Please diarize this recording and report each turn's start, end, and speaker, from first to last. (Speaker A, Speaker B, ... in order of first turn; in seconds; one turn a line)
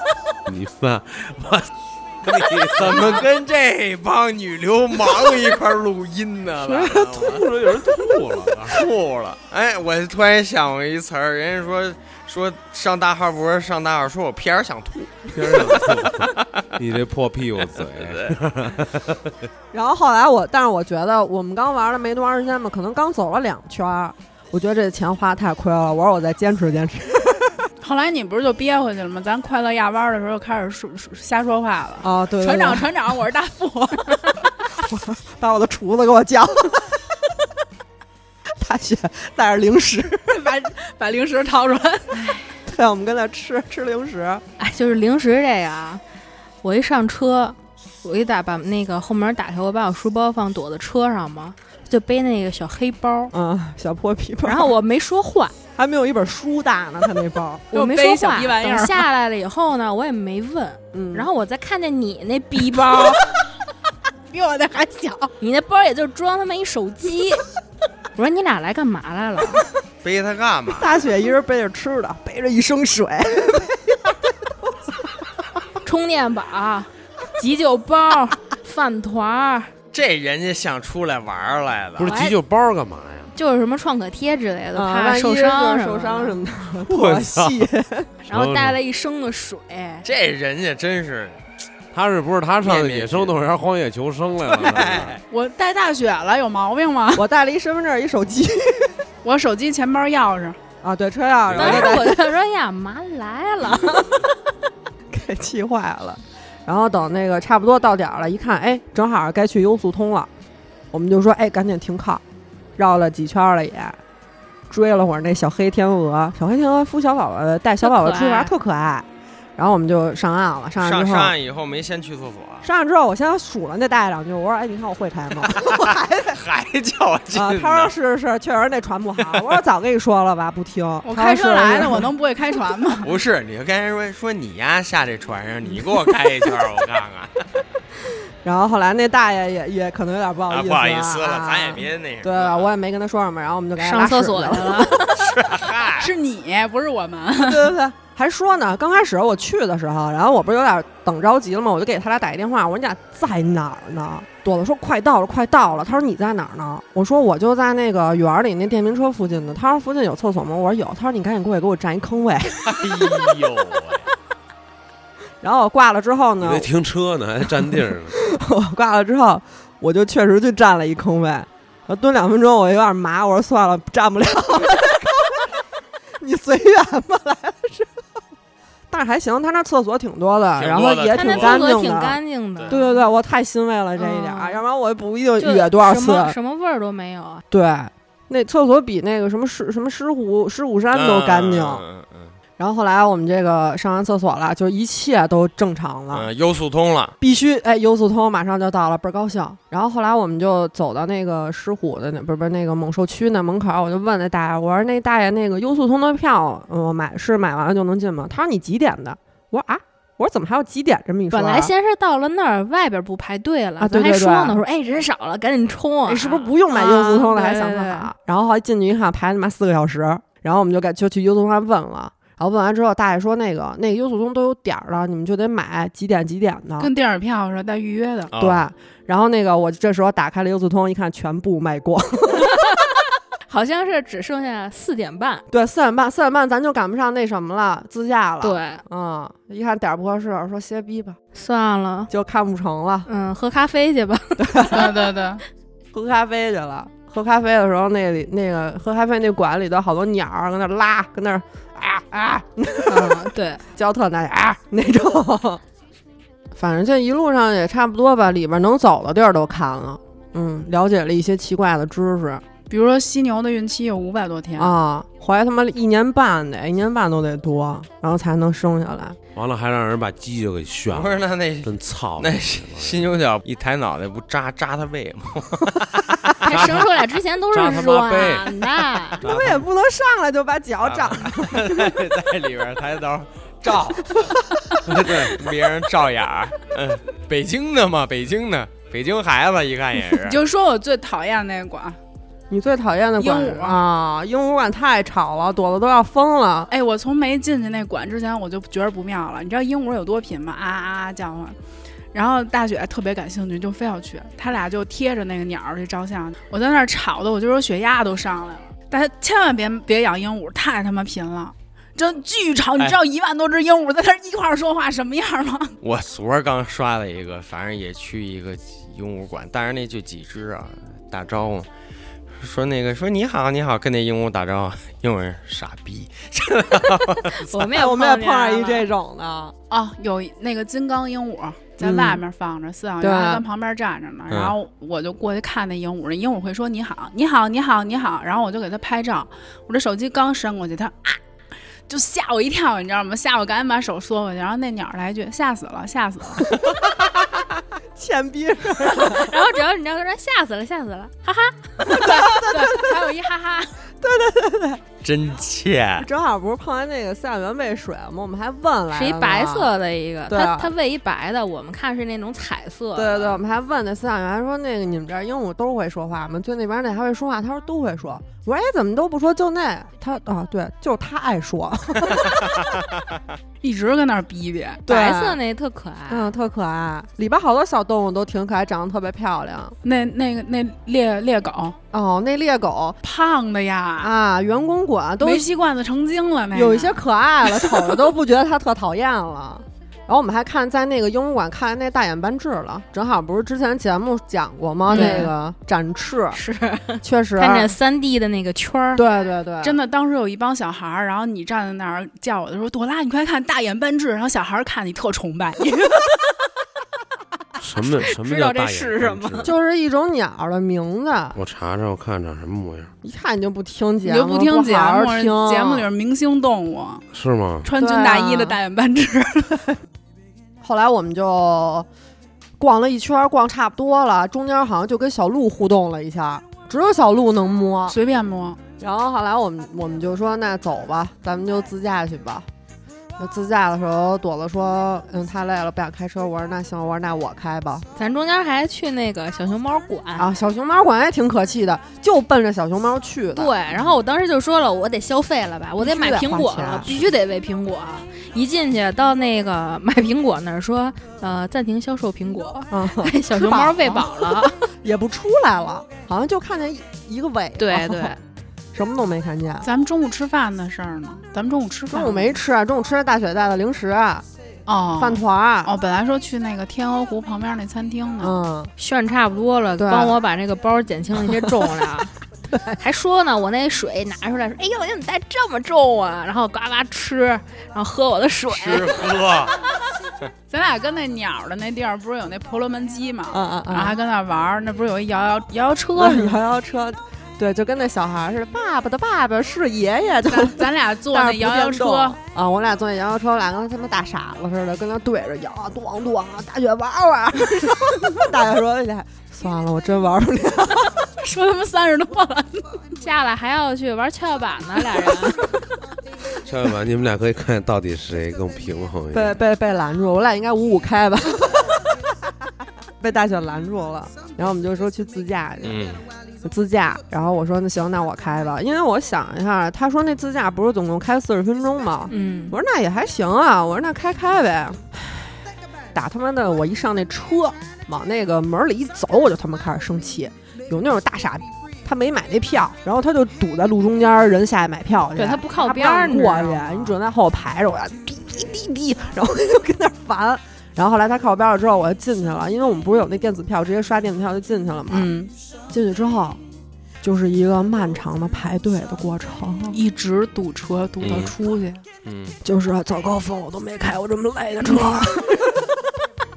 Speaker A: 0.5-1.7
Speaker A: 2.2-3.3
Speaker B: 2.7-7.5
Speaker A: 6.6-8.9
Speaker B: 8.7-16.7
Speaker A: 15.3-19.4
Speaker B: 17.6-18.4
Speaker C: 19.7-27.7
Speaker D: 27.8-34.4
Speaker C: 32.0-32.9
Speaker C: 34.8-37.0
Speaker C: 38.6-40.3
Speaker D: 40.3-42.5
Speaker C: 42.7-44.4
Speaker E: 44.6-46.0
Speaker E: 46.6-53.3
Speaker C: 53.3-54.7
Speaker E: 54.5-55.5
Speaker C: 55.8-57.7
Speaker D: 57.7-59.0
Speaker E: 57.7-63.2
Speaker C: 60.9-61.3
Speaker D: 64.3-65.3
Speaker E: 65.4-67.4
Speaker E: 68.2-69.7
Speaker B: 70.0-71.0
Speaker C: 70.8-74.2
Speaker E: 75.8-79.7
Speaker B: 79.9-82.1
Speaker A: 82.0-83.3
Speaker E: 82.0-82.4
Speaker E: 83.3-86.4
Speaker C: 84.7-88.1
Speaker A: 86.9-87.7
Speaker E: 88.2-90.1
Speaker A: 88.3-88.8
Speaker B: 90.0-91.4
Speaker A: 91.9-95.2
Speaker B: 92.6-93.4
Speaker B: 94.5-95.2
Speaker D: 95.3-97.3
Speaker C: 97.2-99.0
Speaker D: 99.2-100.6
Speaker C: 100.8-102.2
Speaker A: 101.5-102.0
Speaker E: 101.5-104.2
Speaker C: 105.1-110.3
Speaker C: 110.9-112.2
Speaker C: 112.8-114.0
Speaker C: 114.7-121.3
Speaker E: 117.8-118.5
Speaker B: 120.8-122.7
Speaker C: 122.6-126.4
Speaker B: 125.5-127.9
Speaker C: 127.3-132.1
Speaker B: 129.2-129.6
Speaker D: 131.1-133.1
Speaker B: 133.0-137.4
Speaker C: 138.4-145.1
Speaker B: 140.5-142.7
Speaker E: 143.8-145.3
Speaker B: 145.2-146.1
Speaker D: 146.0-147.7
Speaker C: 147.4-163.3
Speaker B: 162.7-164.1
Speaker C: 165.4-166.7
Speaker A: 166.4-168.2
Speaker C: 167.4-175.5
Speaker C: 176.2-178.0
Speaker C: 178.9-186.3
Speaker B: 180.6-181.8
Speaker E: 181.1-183.0
Speaker E: 184.0-184.6
Speaker E: 185.4-187.4
Speaker C: 187.5-191.8
Speaker B: 190.9-192.3
Speaker C: 192.6-196.3
Speaker B: 196.1-197.2
Speaker C: 197.2-211.7
Speaker E: 211.3-218.1
Speaker C: 213.8-214.6
Speaker C: 216.1-226.9
Speaker D: 226.8-228.3
Speaker B: 228.3-228.7
Speaker C: 228.4-232.6
Speaker E: 232.4-232.8
Speaker E: 233.5-235.4
Speaker C: 235.5-241.2
Speaker E: 238.4-238.8
Speaker E: 241.3-242.1
Speaker C: 242.1-243.1
Speaker E: 243.1-244.9
Speaker C: 244.4-245.0
Speaker D: 244.7-245.4
Speaker C: 245.9-255.6
Speaker E: 252.9-253.6
Speaker C: 256.6-262.4
Speaker D: 262.7-264.8
Speaker C: 264.6-269.2
Speaker A: 269.4-273.1
Speaker B: 270.9-276.7
Speaker E: 276.4-279.2
Speaker A: 276.5-276.9
Speaker A: 277.5-278.5
Speaker C: 279.2-282.0
Speaker A: 279.2-279.6
Speaker B: 280.8-284.3
Speaker A: 284.9-285.4
Speaker B: 284.9-290.4
Speaker D: 290.2-292.0
Speaker C: 292.5-296.7
Speaker D: 293.2-293.8
Speaker D: 296.7-301.6
Speaker D: 302.1-315.8
Speaker B: 315.8-321.7
Speaker B: 322.4-327.6
Speaker E: 327.3-328.9
Speaker C: 327.7-329.5
Speaker D: 329.7-341.2
Speaker C: 331.8-332.2
Speaker C: 333.0-333.4
Speaker B: 334.3-334.6
Speaker D: 341.9-346.5
Speaker C: 348.0-349.4
Speaker E: 349.1-352.1
Speaker C: 351.9-352.9
Speaker D: 351.9-353.8
Speaker C: 354.0-354.8
Speaker B: 355.0-356.1
Speaker C: 356.0-359.7
Speaker E: 358.9-363.4
Speaker C: 360.3-360.7
Speaker C: 363.0-372.7
Speaker D: 373.6-374.8
Speaker C: 374.9-375.4
Speaker E: 374.9-376.3
Speaker C: 376.1-379.8
Speaker D: 379.8-381.8
Speaker C: 381.9-383.0
Speaker D: 383.0-384.1
Speaker C: 384.0-385.4
Speaker D: 385.2-387.1
Speaker C: 386.5-396.4
Speaker D: 394.9-395.3
Speaker E: 394.9-395.3
Speaker E: 396.3-399.0
Speaker C: 397.0-397.7
Speaker C: 399.0-399.8
Speaker D: 399.6-406.2
Speaker A: 407.6-409.5
Speaker E: 408.1-409.5
Speaker C: 409.4-411.4
Speaker A: 411.4-412.9
Speaker C: 413.0-415.9
Speaker D: 414.0-417.0
Speaker A: 417.1-417.7
Speaker D: 417.6-419.6
Speaker C: 417.8-418.6
Speaker C: 420.6-421.9
Speaker C: 422.6-428.0
Speaker D: 427.9-428.6
Speaker C: 428.8-432.5
Speaker C: 433.2-437.9
Speaker E: 438.0-440.3
Speaker C: 440.2-443.5
Speaker E: 443.4-454.6
Speaker C: 445.8-447.0
Speaker C: 452.7-458.1
Speaker E: 457.6-458.2
Speaker C: 458.7-459.7
Speaker D: 459.6-462.4
Speaker C: 461.9-464.2
Speaker D: 464.7-468.4
Speaker C: 465.0-465.7
Speaker C: 468.2-468.7
Speaker E: 468.8-472.1
Speaker C: 469.8-470.2
Speaker C: 471.3-471.7
Speaker C: 472.5-472.8
Speaker E: 472.8-479.0
Speaker B: 478.5-479.6
Speaker D: 480.5-486.4
Speaker C: 483.3-483.9
Speaker C: 486.0-501.0
Speaker D: 490.3-492.2
Speaker D: 501.2-502.7
Speaker E: 502.9-505.5
Speaker A: 506.4-509.4
Speaker C: 509.1-511.9
Speaker C: 513.0-515.8
Speaker B: 515.6-516.0
Speaker C: 516.4-525.3
Speaker E: 522.1-522.6
Speaker C: 525.9-545.1
Speaker E: 535.1-537.0
Speaker D: 544.9-545.3
Speaker C: 545.7-546.4
Speaker C: 547.0-549.8
Speaker D: 549.7-551.8
Speaker B: 551.0-551.3
Speaker B: 552.0-552.4
Speaker C: 552.4-555.7
Speaker D: 554.6-554.9